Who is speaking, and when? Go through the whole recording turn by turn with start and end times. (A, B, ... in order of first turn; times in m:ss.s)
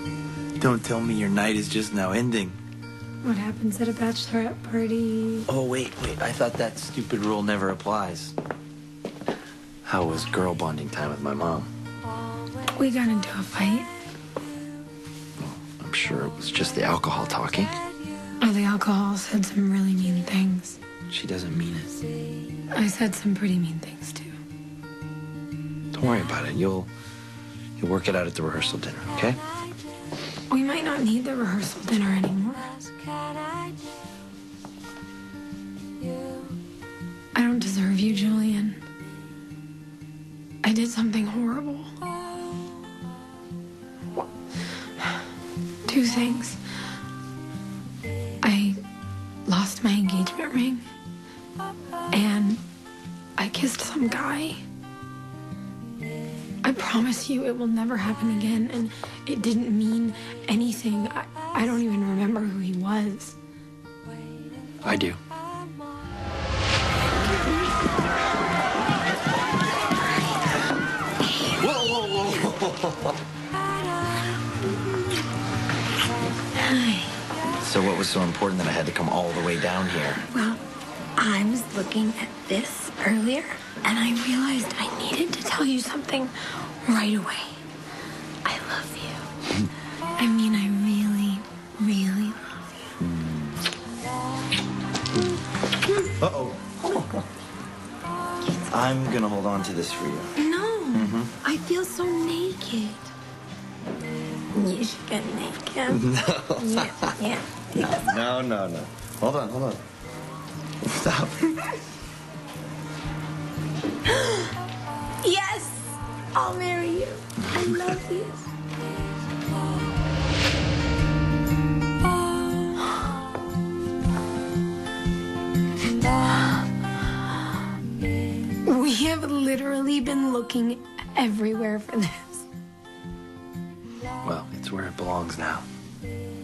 0:00.6-0:02.6 A
0:03.2-0:05.5 B
0:05.5-0:08.4 A
0:09.8-0:11.7 A
0:12.8-0:13.9 B
0:15.4-0:17.8 A
0:18.4-0:20.8 B
0:21.1-0:22.0 A
0:22.7-0:24.3 B
0:25.9-0:26.9 A
0:27.8-0:29.4 A
0:30.5-0:32.8 B
0:37.3-0:38.8 B
0:40.6-0:41.9 B
0:45.8-0:46.6 B
0:48.4-0:48.8 B
0:49.4-0:50.8 B
0:52.1-0:52.6 B
0:53.4-0:54.6 B
0:56.6-1:03.4 B
1:04.8-1:05.2 A
1:11.6-1:13.1 A
1:16.6-1:17.1 B
1:17.6-1:20.2 A
1:20.2-1:20.6 B
1:21.2-1:27.6 B
1:28.4-1:29.3 B
1:30.2-1:32.6 B
1:33.0-1:33.6 A
1:36.2-1:37.2 A
1:38.6-1:40.3 A
1:40.4-1:43.1 B
1:40.9-1:41.3 A
1:44.5-1:46.0 B
1:45.9-1:47.1 A
1:46.6-1:48.2 B
1:47.8-1:49.8 A
1:50.8-1:51.6 A
1:54.1-1:54.5 B
1:55.2-1:58.5 B
2:08.6-2:12.5 B
2:14.2-2:15.7 A